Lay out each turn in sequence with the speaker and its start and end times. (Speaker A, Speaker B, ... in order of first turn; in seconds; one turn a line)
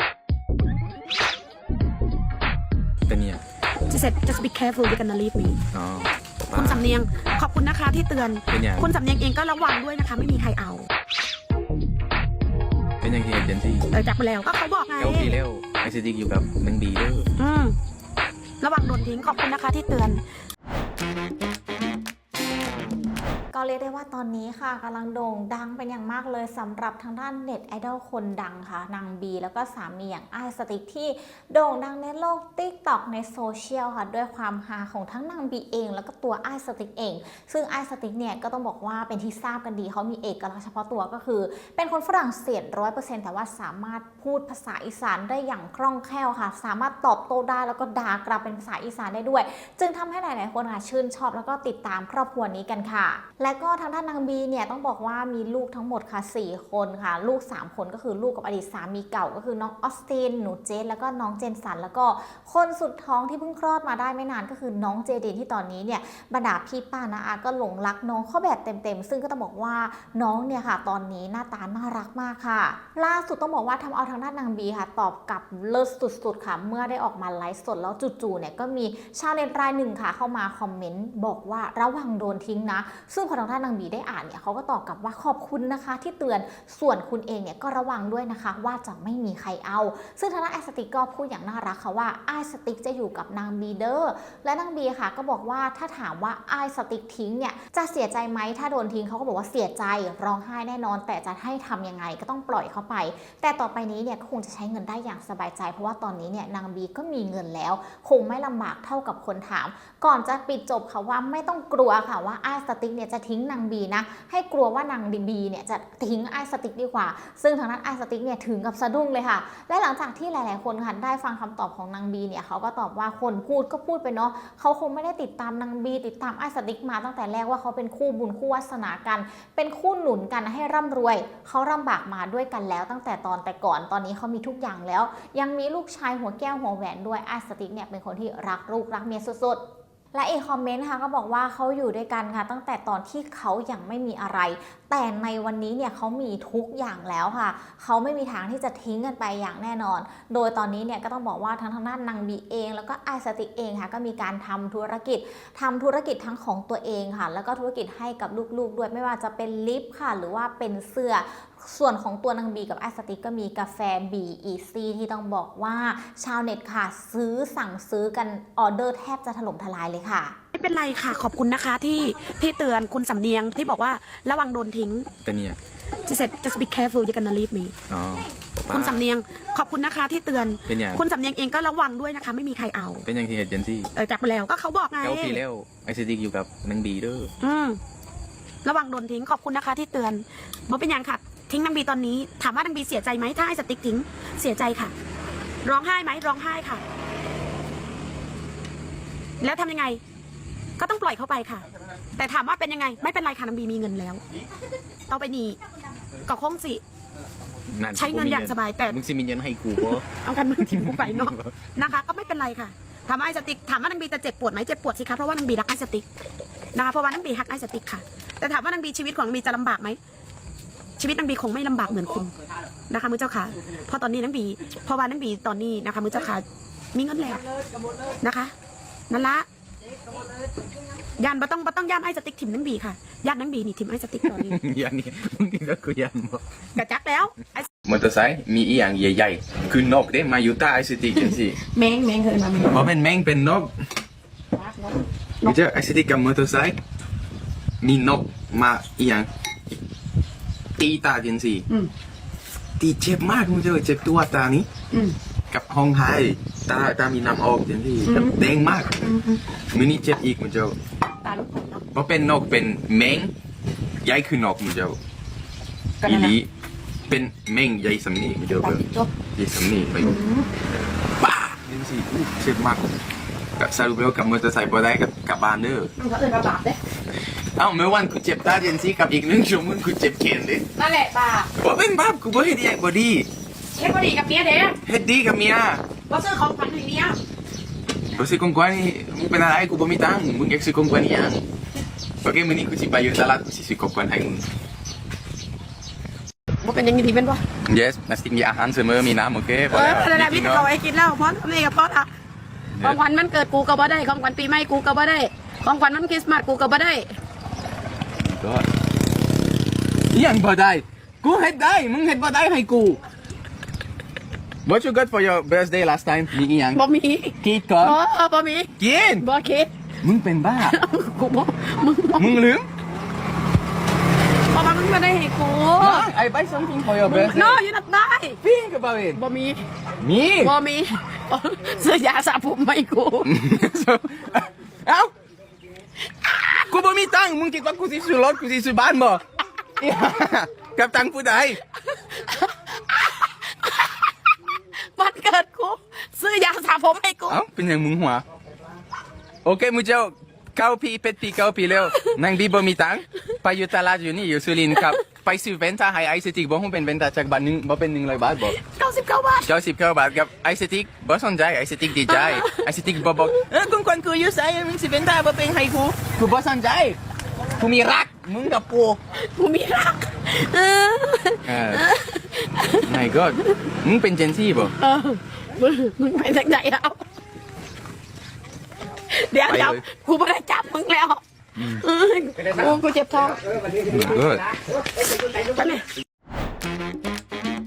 Speaker A: 3.1-3.4
Speaker B: 3.9-5.6
Speaker A: 5.7-6.8
Speaker B: 6.5-10.9
Speaker A: 8.5-8.8
Speaker A: 13.0-13.9
Speaker B: 13.9-15.4
Speaker A: 15.0-17.3
Speaker B: 17.4-17.7
Speaker B: 18.6-20.2
Speaker C: 23.5-139.6
Speaker C: 140.1-170.3
Speaker B: 170.5-175.1
Speaker A: 175.2-175.6
Speaker B: 176.1-177.7
Speaker A: 177.9-179.0
Speaker B: 178.7-183.1
Speaker A: 180.7-181.0
Speaker A: 183.0-183.9
Speaker B: 183.9-185.4
Speaker A: 185.0-187.3
Speaker B: 187.4-187.8
Speaker B: 188.6-194.9
Speaker B: 195.6-196.8
Speaker B: 199.4-200.0
Speaker B: 200.8-204.2
Speaker B: 205.1-205.6
Speaker B: 206.2-206.8
Speaker A: 207.7-210.0
Speaker B: 207.9-209.0
Speaker B: 209.9-216.1
Speaker A: 210.6-211.5
Speaker B: 216.7-220.0
Speaker B: 221.0-222.3
Speaker B: 222.9-227.4
Speaker B: 228.2-228.5
Speaker B: 229.1-229.4
Speaker B: 231.2-234.6
Speaker A: 234.3-236.4
Speaker B: 236.7-237.7
Speaker A: 237.8-241.6
Speaker B: 241.6-242.9
Speaker A: 242.7-243.7
Speaker B: 244.5-245.6
Speaker A: 245.4-246.8
Speaker A: 247.8-249.3
Speaker A: 250.8-251.7
Speaker A: 252.8-254.7
Speaker A: 255.5-259.1
Speaker B: 258.0-258.4
Speaker B: 259.0-259.4
Speaker A: 259.7-260.8
Speaker B: 261.2-261.8
Speaker A: 261.9-263.3
Speaker A: 264.0-265.0
Speaker B: 266.0-266.3
Speaker A: 266.0-266.5
Speaker A: 267.1-268.8
Speaker B: 268.6-269.1
Speaker A: 269.3-270.2
Speaker B: 270.0-270.5
Speaker A: 271.2-272.9
Speaker A: 273.6-275.9
Speaker B: 276.0-276.8
Speaker A: 277.6-280.6
Speaker B: 280.7-281.5
Speaker A: 281.6-283.3
Speaker B: 283.8-284.8
Speaker A: 284.8-285.8
Speaker B: 286.1-287.2
Speaker A: 288.1-291.4
Speaker A: 292.2-294.4
Speaker B: 296.6-297.4
Speaker A: 297.6-300.7
Speaker B: 299.7-302.1
Speaker A: 302.7-303.0
Speaker B: 302.8-307.1
Speaker A: 308.2-308.6
Speaker A: 310.1-313.0
Speaker A: 314.6-316.8
Speaker B: 316.7-319.7
Speaker A: 317.4-318.0
Speaker A: 318.8-319.2
Speaker A: 320.0-320.8
Speaker B: 320.6-322.4
Speaker A: 322.1-322.7
Speaker B: 324.5-326.1
Speaker A: 325.8-327.6
Speaker B: 327.0-328.4
Speaker A: 328.4-329.2
Speaker B: 329.1-329.6
Speaker A: 330.0-330.5
Speaker B: 330.4-333.3
Speaker A: 333.2-335.1
Speaker A: 336.7-339.2
Speaker A: 339.8-341.6
Speaker B: 342.1-344.0
Speaker B: 344.9-347.4
Speaker A: 347.3-348.2
Speaker A: 349.4-358.6
Speaker B: 351.8-352.2
Speaker B: 358.5-359.5
Speaker A: 359.4-367.0
Speaker B: 361.9-362.7
Speaker A: 367.6-369.0
Speaker B: 369.2-372.9
Speaker A: 371.4-371.9
Speaker A: 372.8-374.7
Speaker B: 374.8-377.0
Speaker B: 379.1-383.4
Speaker A: 379.5-379.8
Speaker A: 383.9-384.5
Speaker B: 385.4-385.9